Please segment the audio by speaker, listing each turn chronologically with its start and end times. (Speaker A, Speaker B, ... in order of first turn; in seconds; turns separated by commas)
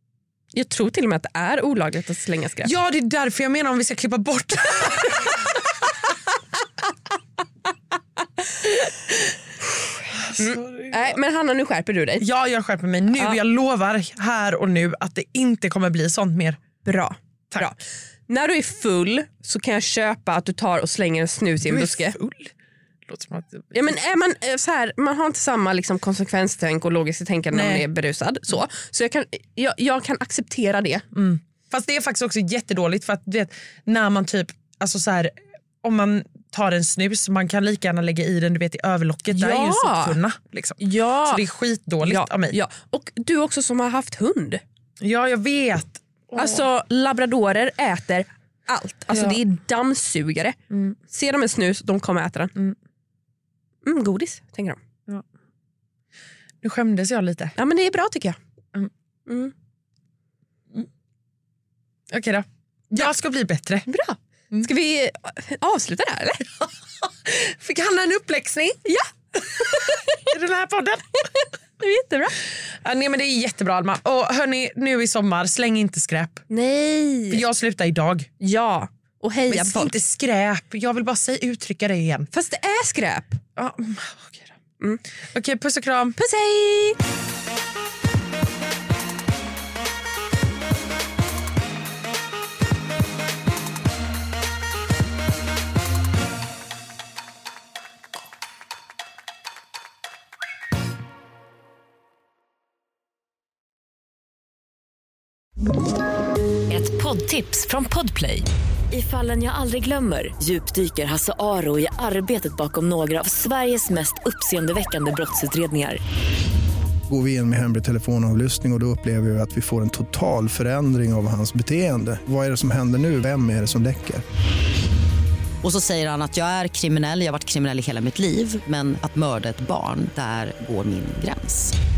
Speaker A: 0.5-2.7, Speaker B: 2.6-5.5, Speaker B: 10.3-11.2, Speaker A: 10.4-12.2, Speaker B: 12.2-16.6, Speaker A: 16.8-22.1, Speaker B: 21.6-22.5, Speaker B: 23.1-23.9, Speaker A: 23.7-31.0, Speaker B: 27.5-27.9, Speaker B: 31.1-42.6, Speaker A: 39.3-40.2, Speaker A: 40.8-41.5, Speaker A: 42.0-44.6, Speaker B: 45.0-46.6, Speaker A: 46.4-50.5, Speaker B: 49.1-49.4, Speaker B: 50.7-51.0, Speaker A: 51.1-52.5, Speaker A: 53.8-54.8, Speaker B: 56.6-57.5, Speaker A: 57.5-58.4, Speaker A: 59.3-59.5, Speaker B: 62.1-63.9, Speaker A: 63.9-66.4, Speaker B: 66.6-68.8, Speaker A: 68.8-70.3, Speaker B: 69.5-71.2, Speaker A: 71.3-72.4, Speaker B: 72.7-76.4, Speaker A: 76.5-77.4, Speaker B: 77.3-78.3, Speaker A: 78.4-80.0, Speaker B: 79.5-82.3, Speaker A: 82.3-83.4, Speaker B: 83.6-84.5, Speaker B: 85.3-86.2, Speaker A: 86.2-87.0, Speaker C: 106.7-116.0, Speaker D: 117.1-124.2, Speaker E: 125.6-131.6